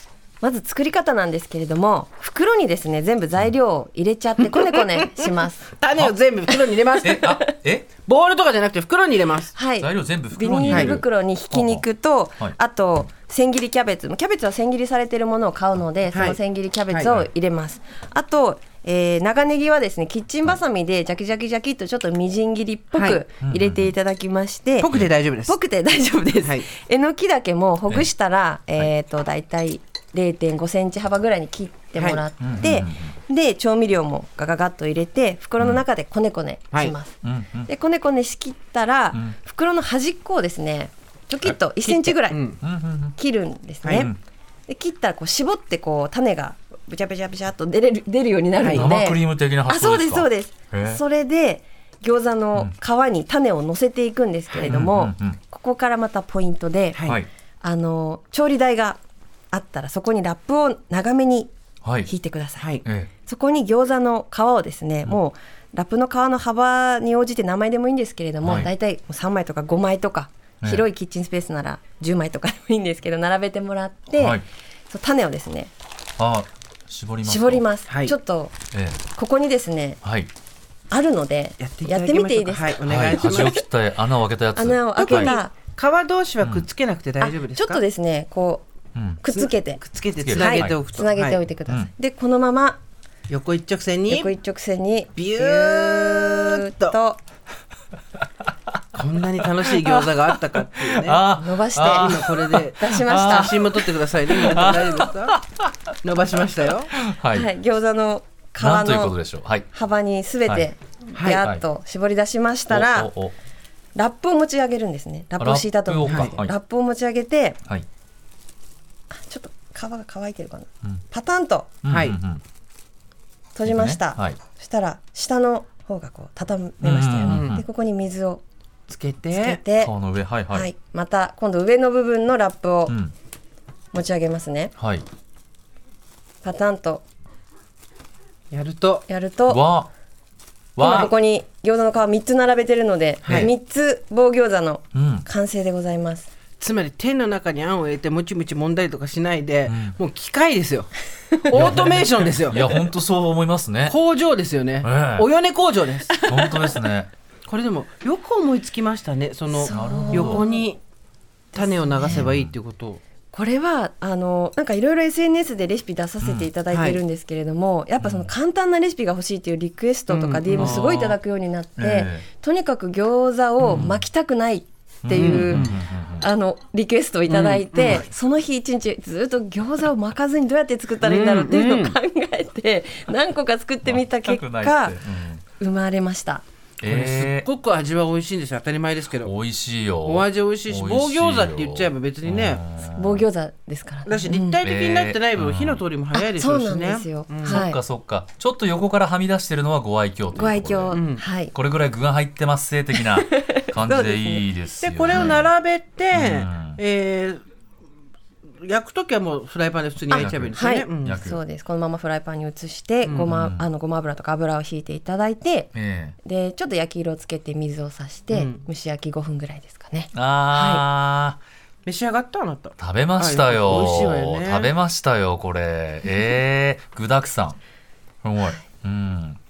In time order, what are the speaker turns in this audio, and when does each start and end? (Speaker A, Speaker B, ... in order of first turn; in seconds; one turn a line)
Speaker A: 0.4-5.7
Speaker B: 4.4-7.4
Speaker C: 7.0-7.9
Speaker B: 8.0-9.5
Speaker A: 9.5-24.9
Speaker C: 9.8-11.8
Speaker B: 10.7-11.0
Speaker B: 16.1-16.4
Speaker B: 16.9-17.2
Speaker B: 22.9-23.2
Speaker C: 23.4-23.9
Speaker B: 24.8-25.6
Speaker A: 25.5-37.1
Speaker B: 32.0-32.2
Speaker C: 32.4-33.1
Speaker C: 37.2-37.7
Speaker A: 37.6-42.4
Speaker B: 41.8-42.6
Speaker C: 42.6-43.2
Speaker A: 43.2-44.1
Speaker B: 43.8-44.1
Speaker A: 44.7-57.1
Speaker B: 48.6-48.9
Speaker C: 48.7-51.0
Speaker C: 54.6-55.4
Speaker B: 56.9-57.2
Speaker A: 57.6-59.0
Speaker A: 59.5-61.5
Speaker C: 61.8-62.1
Speaker A: 62.0-62.6
Speaker B: 62.6-62.8
Speaker C: 62.8-63.1
Speaker A: 63.2-75.7
Speaker C: 68.4-68.7
Speaker C: 74.2-74.4
Speaker C: 76.2-77.7
Speaker A: 77.2-78.5
Speaker B: 77.9-78.1
Speaker C: 78.7-79.0
Speaker A: 79.1-80.0
Speaker C: 80.0-80.3
Speaker A: 80.9-83.5
Speaker B: 81.6-83.6
Speaker C: 82.9-85.3
Speaker A: 84.5-85.5
Speaker B: 85.0-87.8
Speaker C: 86.4-86.7
Speaker A: 87.2-88.6
Speaker C: 88.9-89.2
Speaker A: 89.2-92.8
Speaker B: 89.3-91.4
Speaker C: 90.2-90.8
Speaker B: 93.3-94.3
Speaker A: 94.1-97.2
Speaker B: 95.2-97.0
Speaker B: 98.9-101.2
Speaker C: 100.7-105.7
Speaker A: 101.3-102.2
Speaker B: 101.9-105.3
Speaker A: 102.8-103.6
Speaker B: 106.0-106.9
Speaker C: 106.9-107.5
Speaker A: 107.3-109.2
Speaker C: 108.6-109.7
Speaker A: 109.7-113.1
Speaker B: 111.1-111.4
Speaker C: 112.7-113.3
Speaker A: 113.9-117.6
Speaker C: 115.4-116.5
Speaker B: 116.0-116.3
Speaker A: 119.1-121.7
Speaker C: 121.8-122.4
Speaker B: 121.9-122.2
Speaker A: 123.5-128.4
Speaker C: 123.6-124.4
Speaker C: 126.8-127.6
Speaker B: 127.2-127.6
Speaker B: 128.9-129.6
Speaker A: 129.3-129.9
Speaker C: 129.8-130.7
Speaker A: 130.5-132.9
Speaker C: 132.9-133.1
Speaker A: 133.9-134.7
Speaker C: 134.8-135.1
Speaker A: 136.4-137.0
Speaker B: 138.5-139.1
Speaker A: 139.1-139.6
Speaker C: 139.5-139.9
Speaker C: 140.8-141.1
Speaker A: 140.8-146.3
Speaker B: 143.2-143.5
Speaker C: 143.3-143.5
Speaker C: 144.9-145.2
Speaker B: 146.6-152.9
Speaker C: 149.7-150.0
Speaker C: 151.5-154.0
Speaker B: 153.9-156.2
Speaker C: 154.8-155.3
Speaker A: 156.1-156.8
Speaker C: 156.2-157.1
Speaker B: 157.5-160.8
Speaker A: 159.5-160.6
Speaker C: 159.7-160.4
Speaker B: 161.5-163.0
Speaker A: 161.5-162.2
Speaker C: 162.0-162.5
Speaker A: 163.3-185.0
Speaker C: 166.2-166.5
Speaker B: 166.7-167.0
Speaker C: 168.0-168.3
Speaker B: 170.1-170.9
Speaker C: 170.6-171.2
Speaker C: 171.8-172.3
Speaker C: 173.7-174.0
Speaker C: 175.0-176.2
Speaker B: 175.1-175.8
Speaker B: 177.3-178.1
Speaker B: 181.0-181.9
Speaker C: 183.8-185.4
Speaker A: 185.6-186.4
Speaker C: 186.8-187.4
Speaker B: 186.8-189.3
Speaker C: 189.2-193.2
Speaker B: 190.0-192.6
Speaker A: 192.9-194.6
Speaker B: 194.1-197.6
Speaker C: 194.6-195.8
Speaker A: 196.1-197.8
Speaker C: 197.4-201.0
Speaker A: 200.3-201.5
Speaker B: 200.9-201.2
Speaker C: 201.5-205.5
Speaker A: 203.0-204.4
Speaker B: 204.8-207.4
Speaker A: 205.1-205.4
Speaker C: 206.1-206.8
Speaker B: 208.6-211.2
Speaker A: 210.1-215.7
Speaker C: 210.1-211.4
Speaker B: 213.0-213.3
Speaker C: 213.2-213.7
Speaker C: 215.7-216.2
Speaker A: 216.2-220.8
Speaker B: 218.3-218.6
Speaker C: 220.1-221.4
Speaker B: 221.8-224.7
Speaker C: 222.8-227.6
Speaker C: 228.2-229.4